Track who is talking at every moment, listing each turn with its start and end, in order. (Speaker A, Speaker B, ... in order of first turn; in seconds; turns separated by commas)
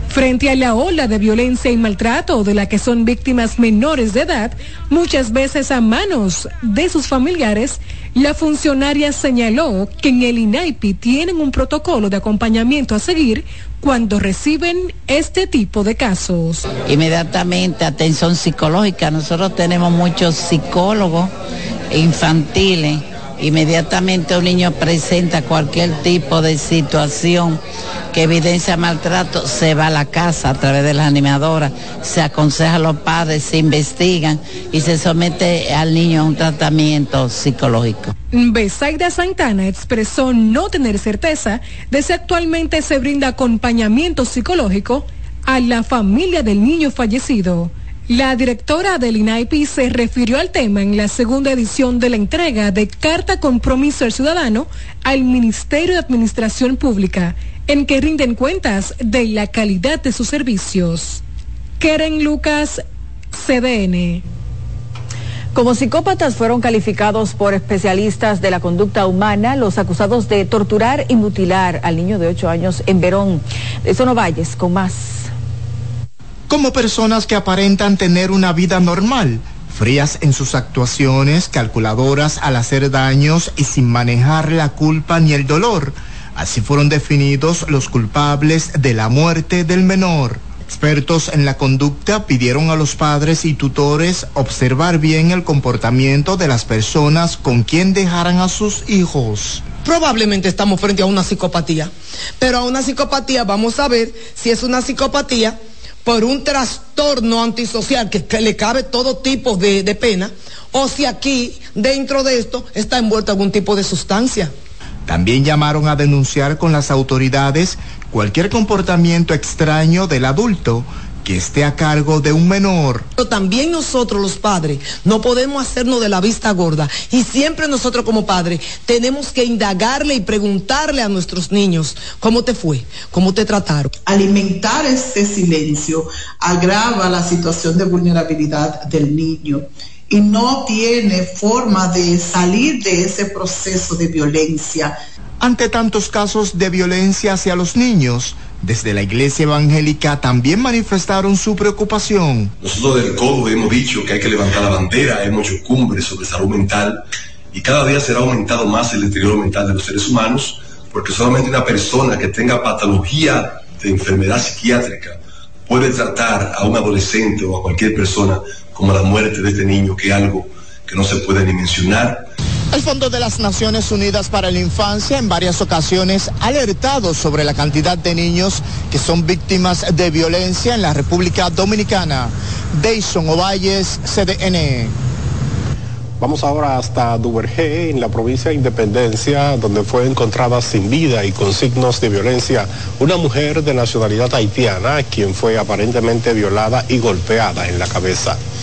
Speaker A: 0.1-16.6, Speaker B: 16.9-21.3, Speaker B: 21.9-27.6, Speaker B: 28.1-38.1, Speaker A: 38.3-61.2, Speaker A: 61.8-62.8, Speaker A: 63.3-64.2, Speaker C: 65.5-75.3, Speaker D: 76.5-99.7, Speaker E: 99.7-114.5, Speaker D: 115.0-123.1, Speaker E: 123.2-133.9, Speaker F: 134.1-144.9, Speaker D: 145.4-152.5, Speaker G: 152.6-172.2, Speaker D: 172.7-184.9, Speaker H: 186.2-198.4